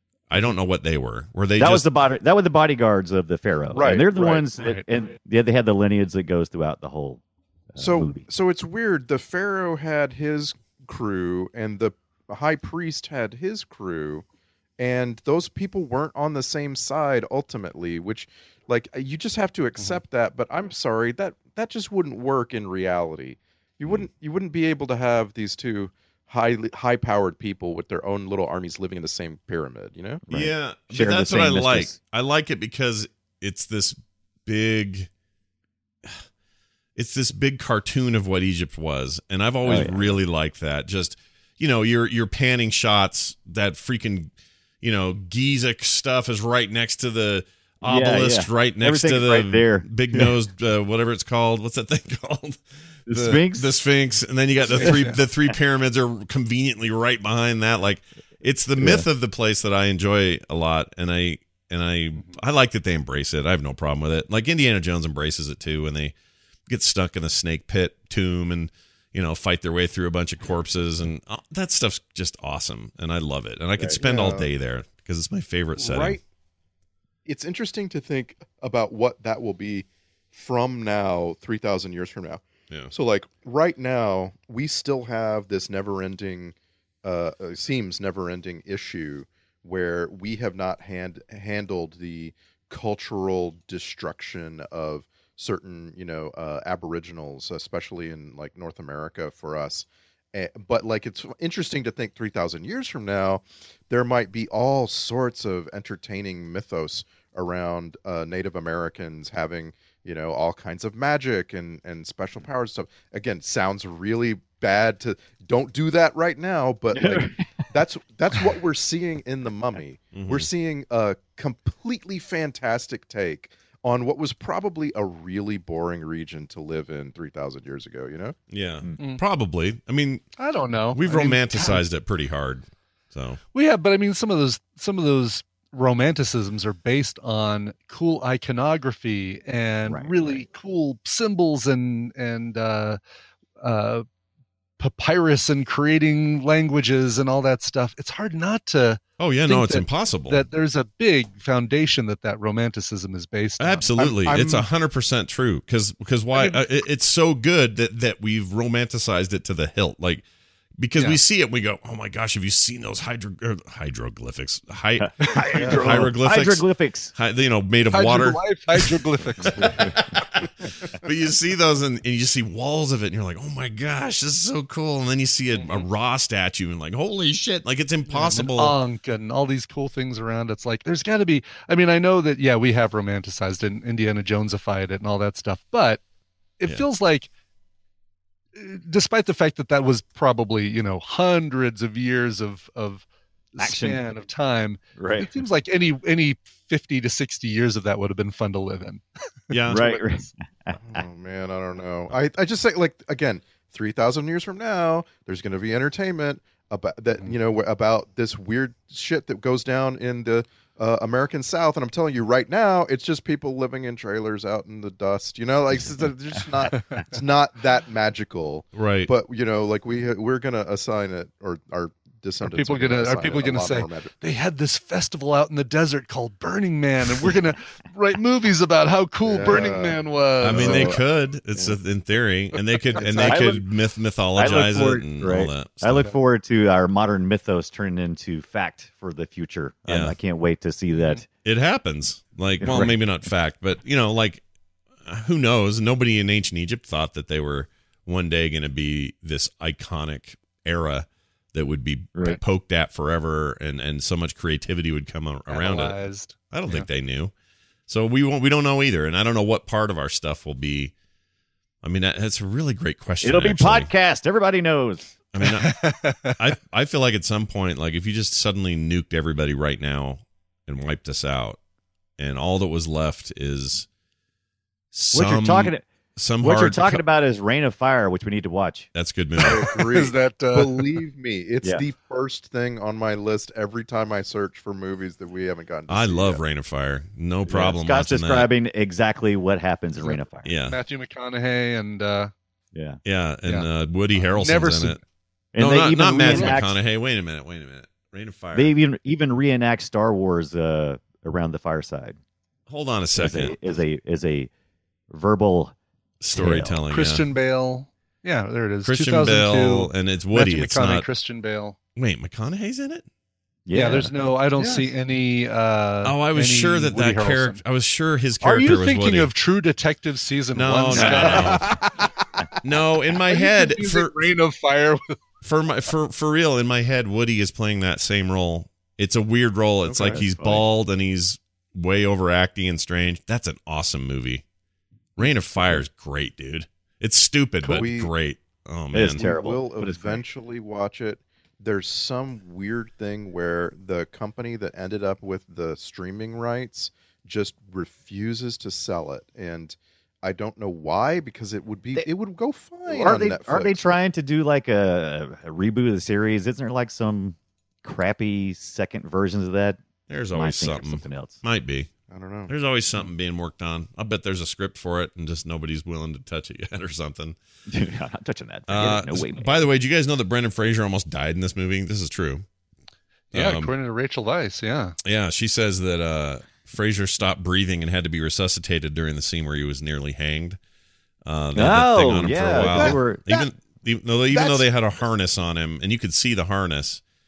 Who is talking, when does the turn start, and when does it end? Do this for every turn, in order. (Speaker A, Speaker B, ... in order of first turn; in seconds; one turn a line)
Speaker A: 0.3-1.9
Speaker B: 1.6-7.2
Speaker C: 3.7-4.5
Speaker D: 4.6-4.8
Speaker B: 7.7-8.3
Speaker C: 7.8-14.2
Speaker C: 14.8-30.2
Speaker B: 30.3-32.0
Speaker A: 30.3-35.1
Speaker A: 37.0-66.1
Speaker B: 39.6-40.2
Speaker B: 47.8-50.3
Speaker B: 53.1-53.7
Speaker B: 54.7-55.1
Speaker D: 54.7-55.2
Speaker B: 58.8-59.1
Speaker A: 66.7-76.2
Speaker C: 73.8-74.5
Speaker C: 75.8-76.2
Speaker C: 77.3-128.4
Speaker B: 116.9-117.3
Speaker A: 120.1-120.5
Speaker A: 128.5-130.2
Speaker D: 130.4-131.8
Speaker A: 130.9-133.4
Speaker D: 133.5-143.0
Speaker B: 139.9-140.4
Speaker D: 143.6-144.1
Speaker D: 144.8-153.9
Speaker A: 149.2-150.4
Speaker A: 153.6-160.2
Speaker C: 154.0-154.7
Speaker D: 156.3-156.6
Speaker A: 160.8-168.8
Speaker B: 165.0-167.1
Speaker D: 165.4-166.0
Speaker D: 167.9-169.9
Speaker A: 169.4-170.5
Speaker A: 171.0-178.8
Speaker D: 175.5-175.9
Speaker D: 178.1-186.0
Speaker D: 186.6-187.3
Speaker D: 188.6-200.3
Speaker B: 193.6-194.0
Speaker B: 195.0-195.3
Speaker A: 199.5-200.0
Speaker B: 199.7-201.0
Speaker C: 200.8-224.1
Speaker D: 216.7-217.0
Speaker A: 218.8-219.1
Speaker D: 222.4-231.0
Speaker C: 229.2-231.0
Speaker A: 230.4-236.1
Speaker C: 233.0-233.6
Speaker B: 233.1-233.6
Speaker B: 234.4-241.2
Speaker A: 239.9-240.2
Speaker A: 241.4-244.4
Speaker B: 242.6-243.0
Speaker A: 245.1-256.0
Speaker D: 255.5-256.9
Speaker A: 256.5-257.3
Speaker A: 257.9-260.9
Speaker A: 261.8-263.9
Speaker B: 263.2-265.1
Speaker A: 265.3-265.7
Speaker D: 265.4-266.4
Speaker A: 266.4-271.6
Speaker A: 272.2-273.9
Speaker A: 274.9-277.0
Speaker B: 275.1-275.9
Speaker B: 276.4-278.9
Speaker A: 278.9-279.7
Speaker C: 279.4-286.4
Speaker D: 279.4-280.9
Speaker A: 285.9-288.5
Speaker B: 287.5-290.5
Speaker D: 290.0-292.3
Speaker A: 290.4-290.8
Speaker B: 292.7-293.0
Speaker A: 293.1-295.0
Speaker D: 293.4-295.0
Speaker B: 295.5-296.8
Speaker A: 295.6-298.8
Speaker D: 296.3-296.6
Speaker B: 298.6-302.2
Speaker A: 302.7-303.6
Speaker B: 303.1-304.5
Speaker B: 305.1-305.8
Speaker A: 306.2-307.2
Speaker B: 306.3-306.8
Speaker D: 306.9-311.8
Speaker A: 308.8-311.1
Speaker A: 312.0-313.1
Speaker B: 313.7-314.1
Speaker D: 313.7-317.6
Speaker C: 314.6-314.9
Speaker A: 316.0-319.3
Speaker D: 318.4-321.7
Speaker A: 320.6-321.7
Speaker B: 320.9-321.7
Speaker C: 321.2-321.8
Speaker A: 322.6-324.2
Speaker D: 323.3-325.2
Speaker A: 325.4-334.4
Speaker C: 329.9-330.3
Speaker B: 330.0-330.6
Speaker A: 335.2-339.3
Speaker C: 337.6-338.1
Speaker B: 338.9-340.2
Speaker C: 339.0-354.0
Speaker B: 352.9-359.8
Speaker A: 360.1-361.9
Speaker B: 360.3-361.4
Speaker C: 362.1-362.5
Speaker A: 362.5-367.4
Speaker B: 367.7-369.6
Speaker A: 368.7-372.4
Speaker D: 373.3-375.0
Speaker A: 373.3-373.7
Speaker A: 375.0-380.6
Speaker A: 381.2-387.0
Speaker B: 381.5-383.3
Speaker C: 382.6-383.5
Speaker C: 384.3-384.7